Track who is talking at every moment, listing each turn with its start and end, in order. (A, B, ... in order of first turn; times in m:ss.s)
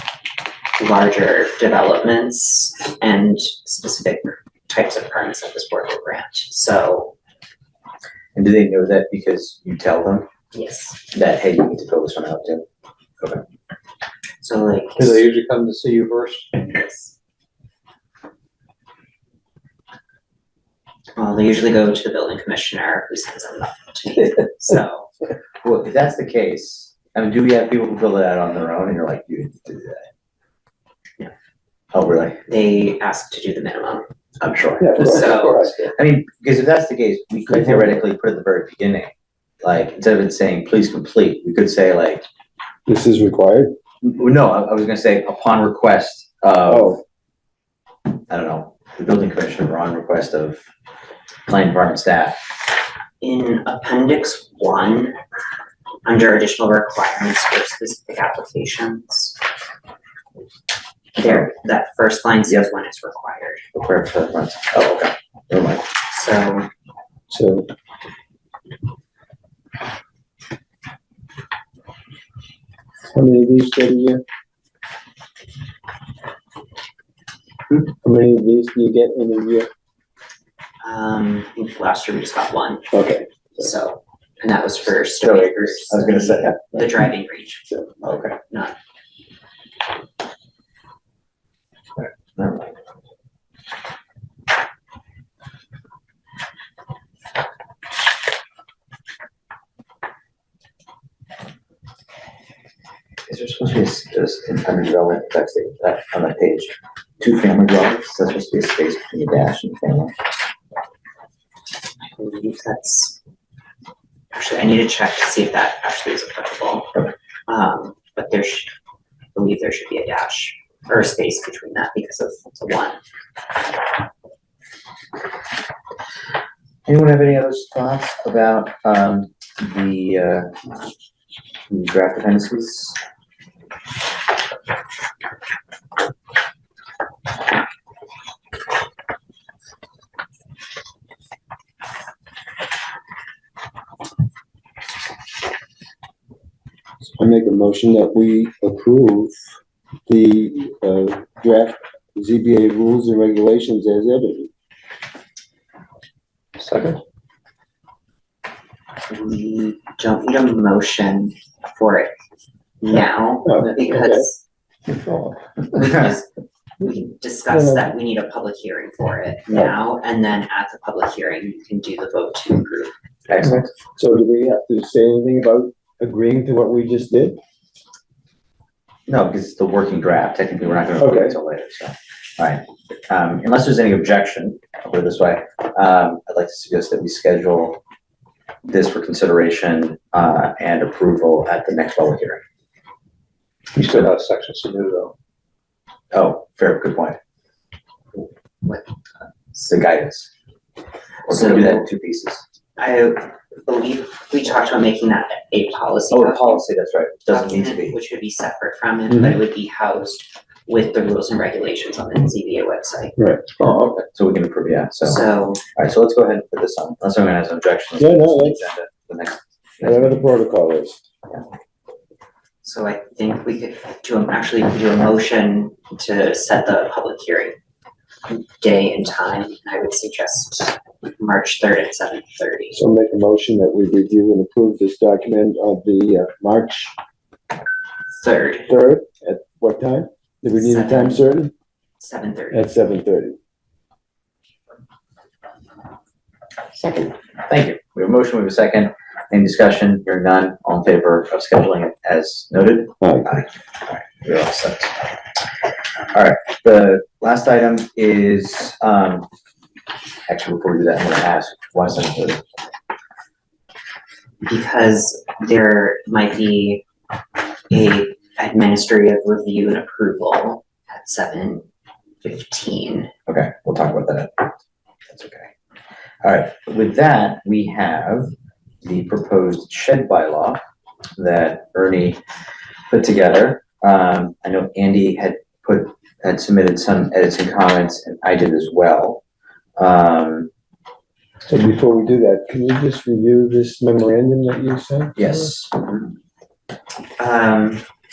0:00.8-0:07.1 A
0:08.4-0:10.3 B
0:10.5-0:11.1 A
0:11.1-0:12.6 B
0:14.4-0:15.2 A
0:15.0-0:16.5 C
0:16.5-0:17.1 A
0:21.2-0:25.1 A
0:25.6-0:30.0 B
0:31.9-0:32.4 B
0:32.5-0:34.1 A
0:34.4-0:39.1 B
0:34.8-0:35.8 D
0:34.9-0:35.6 A
0:37.5-0:38.0 D
0:39.6-0:42.2 B
0:42.8-0:43.7 D
0:44.0-0:47.0 B
0:46.7-0:47.0 D
0:48.3-0:50.6 B
0:51.5-0:52.4 B
0:53.2-0:55.2 A
0:56.0-0:59.4 A
1:01.2-1:03.6 A
1:03.7-1:05.8 B
1:06.1-1:06.7 A
1:07.3-1:07.7 D
1:13.1-1:14.2 D
1:17.8-1:19.7 D
1:20.8-1:22.9 A
1:22.9-1:23.3 D
1:23.6-1:28.7 A
1:25.2-1:26.8 B
1:28.0-1:28.4 B
1:32.0-1:32.7 B
1:43.3-1:50.1 B
1:52.0-1:53.2 A
1:54.3-1:57.0 A
1:57.5-1:58.7 A
1:59.3-2:03.0 A
2:06.8-2:10.5 B
2:11.7-2:13.0 B
2:27.2-2:29.4 D
2:30.1-2:34.5 D
2:36.6-2:37.0 C
2:39.1-2:42.1 A
2:42.8-2:44.4 A
2:43.4-2:44.2 D
2:45.7-2:46.3 A
2:46.8-2:52.9 A
2:47.5-2:47.9 D
2:53.3-2:53.7 B
2:53.4-2:57.4 D
2:59.1-3:07.8 B
3:01.0-3:01.4 D
3:08.6-3:12.4 B
3:13.7-3:15.1 C
3:16.1-3:17.2 B
3:19.6-3:20.3 B
3:21.3-3:22.4 B
3:21.3-3:21.8 A
3:22.8-3:26.6 A
3:26.1-3:28.0 B
3:27.3-3:33.1 A
3:29.1-3:29.4 D
3:33.2-3:33.7 D
3:33.6-3:34.0 C
3:34.1-3:35.2 B
3:35.0-3:35.6 A
3:35.7-3:40.2 B
3:38.0-3:38.6 D
3:39.8-3:41.0 D
3:42.6-3:47.6 A
3:48.3-3:52.8 A
3:52.7-3:56.9 D
3:58.1-3:58.7 A
3:58.7-4:01.5 D
4:00.5-4:01.2 A
4:02.0-4:02.7 A
4:02.5-4:03.4 D
4:07.5-4:15.0 B
4:13.0-4:13.3 D
4:16.1-4:19.3 B
4:20.3-4:22.4 B
4:24.4-4:26.8 A
4:27.7-4:31.6 A
4:32.2-4:33.1 A
4:33.3-4:34.5 B
4:35.1-4:35.5 B
4:36.2-4:40.6 B
4:41.2-4:42.2 B
4:42.9-4:49.2 B
4:49.8-4:50.5 B
4:51.5-4:55.5 D
4:55.2-4:56.0 B
4:57.2-4:57.8 A